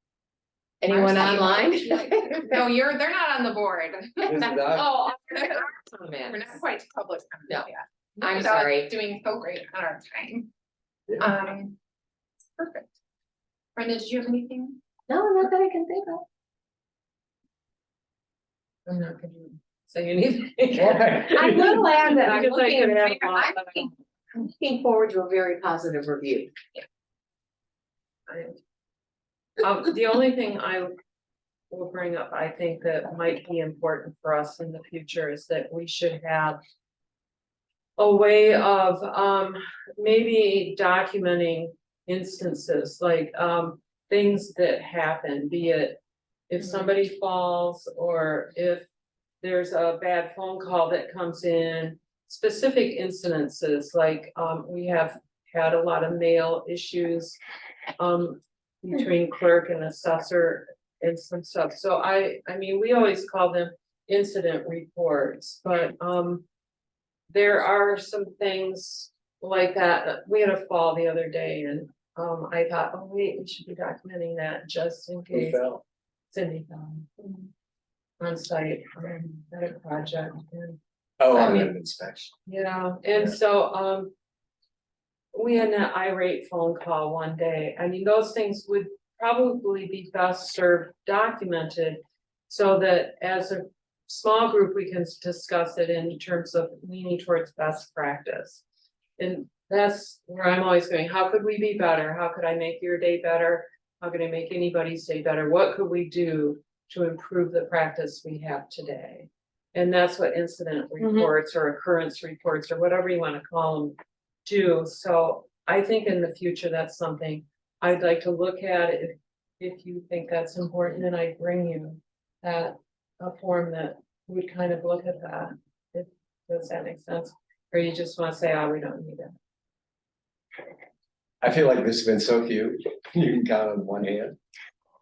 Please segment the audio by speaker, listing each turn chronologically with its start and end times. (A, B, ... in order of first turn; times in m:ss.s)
0:00.8-0:02.6 A
0:00.9-0:05.7 B
0:04.2-0:04.9 C
0:04.8-0:06.6 A
0:06.2-0:10.5 B
0:08.2-0:08.9 A
0:11.2-0:11.8 B
0:12.6-0:12.9 B
0:13.8-0:14.8 B
0:15.1-0:16.2 A
0:18.8-0:23.9 D
0:20.7-0:21.9 C
0:21.2-0:26.5 A
0:28.3-0:28.6 D
0:29.6-0:30.9 D
0:31.7-0:36.6 D
0:38.0-0:48.9 D
0:49.4-0:57.4 D
0:58.0-1:06.4 D
1:07.3-1:15.7 D
1:15.3-1:15.8 C
1:16.3-1:17.2 D
1:18.2-1:20.8 D
1:21.2-1:22.3 C
1:21.3-1:21.7 D
1:22.4-1:24.1 D
1:25.3-1:38.6 D
1:39.2-2:09.3 D
1:51.0-1:51.3 A
2:11.4-2:14.4 C